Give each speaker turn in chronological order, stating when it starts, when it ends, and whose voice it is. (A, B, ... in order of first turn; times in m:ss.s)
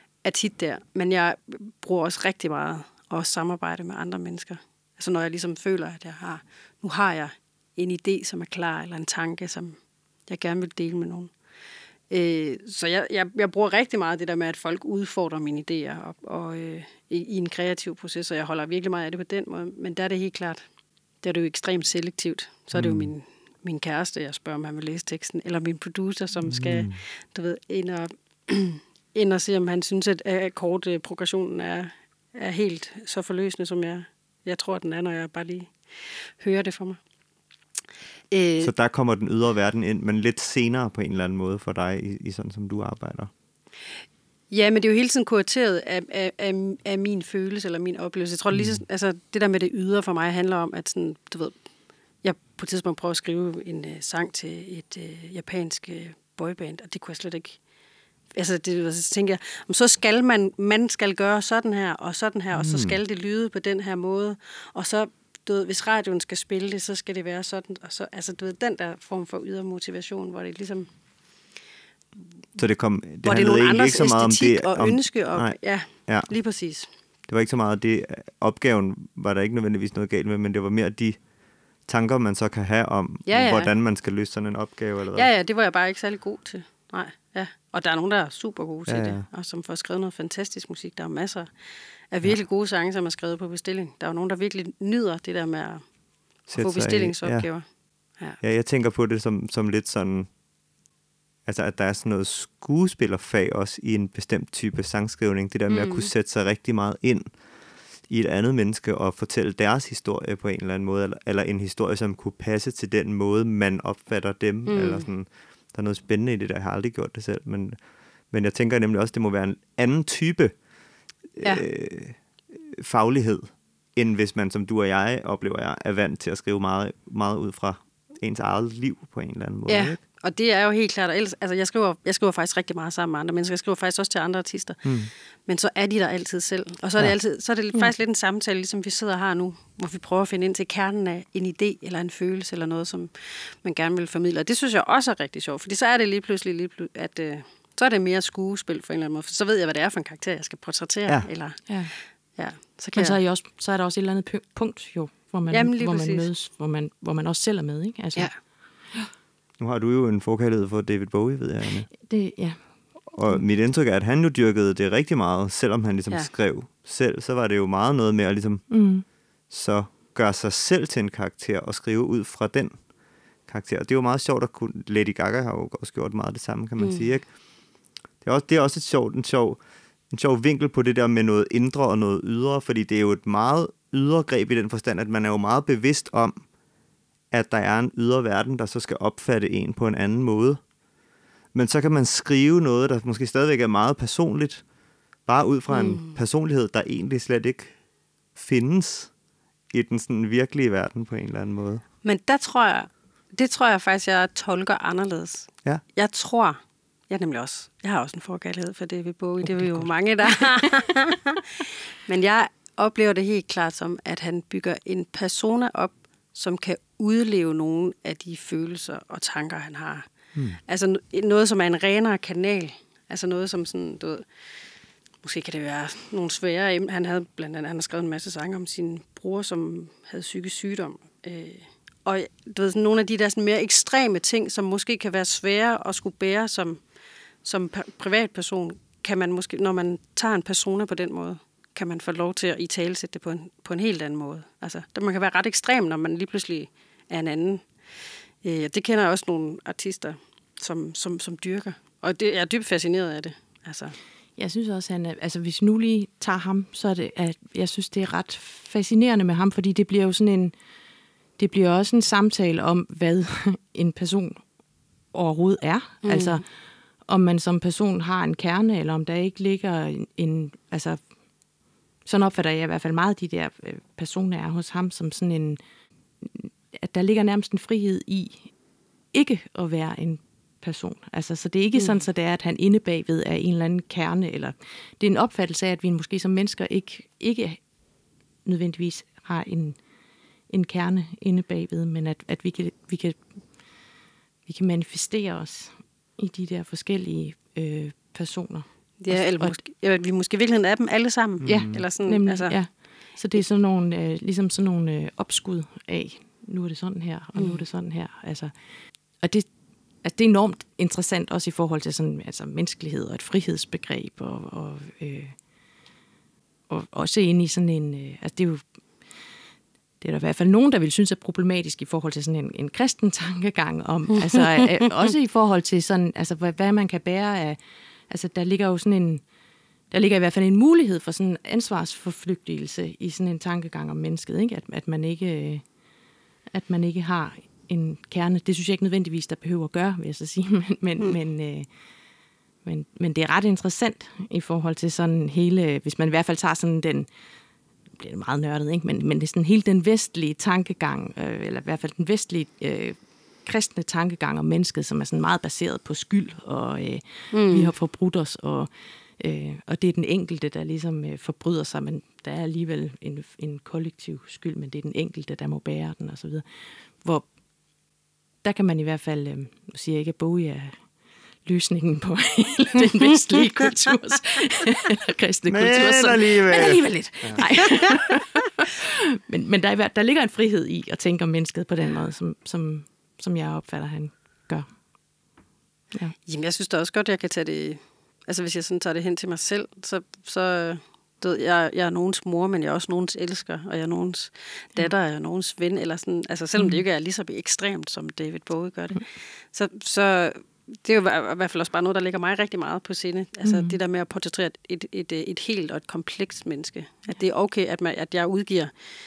0:00.2-0:11.3 A
0:12.1-0:20.6 A
0:21.2-0:37.0 A
0:22.7-0:23.1 B
0:26.5-0:27.0 B
0:38.3-0:38.7 A
0:38.6-0:43.3 B
0:44.5-0:51.6 A
0:48.5-0:48.8 B
0:52.2-0:57.6 A
0:58.3-1:10.9 A
1:02.5-1:03.0 B
1:12.6-1:16.3 B
1:13.2-1:16.9 A
1:17.3-1:21.3 B
1:21.8-1:25.3 B
1:23.3-1:23.7 A
1:25.1-1:31.5 A
1:28.8-1:29.3 B
1:32.1-1:35.9 A
1:36.4-1:38.4 A
1:36.5-1:37.5 B
1:38.4-1:40.3 B
1:41.4-2:00.6 B
1:45.7-1:46.1 A
1:54.7-1:55.1 A
2:01.4-2:10.0 B
2:09.7-2:33.2 A
2:14.8-2:15.1 B
2:31.7-2:31.9 C
2:32.9-2:39.1 C
2:35.5-2:36.3 A
2:39.6-2:41.9 B
2:42.0-2:43.4 C
2:43.1-2:52.9 B
2:48.7-2:49.0 C
2:53.4-2:57.4 B
2:56.8-2:57.1 A
2:58.2-3:06.5 B
3:07.3-3:10.6 B
3:11.5-3:14.7 B
3:15.2-3:17.8 B
3:15.7-3:16.2 A
3:18.3-3:19.1 B
3:19.7-3:21.8 B
3:22.0-3:44.2 A
3:40.3-3:40.6 B
3:45.2-3:56.8 A
3:57.4-4:07.7 A
4:08.4-4:14.0 A
4:14.4-4:20.5 C
4:21.4-4:24.4 C
4:25.1-4:26.4 C
4:26.0-4:26.4 A
4:27.0-4:31.0 C
4:32.0-4:35.6 C
4:36.2-4:38.5 C
4:39.1-4:47.6 C
4:41.7-4:42.0 A
4:48.4-4:49.8 C
4:50.5-4:53.7 C
4:54.4-4:59.6 C
4:59.0-5:02.8 A
5:01.4-5:01.8 B
5:01.4-5:09.5 C
5:07.3-5:07.6 A
5:10.0-5:15.4 C
5:16.7-5:18.6 C
5:20.0-5:27.6 C
5:28.1-5:29.2 C
5:29.9-5:35.7 C
5:36.5-5:41.7 C
5:42.6-5:47.1 C
5:48.0-6:06.4 C
5:57.3-5:57.7 A
6:07.0-6:07.3 C
6:08.4-6:10.9 C
6:11.4-6:18.6 C
6:15.5-6:17.4 B
6:19.2-6:24.7 C
6:26.2-6:48.7 A
6:43.4-6:43.8 C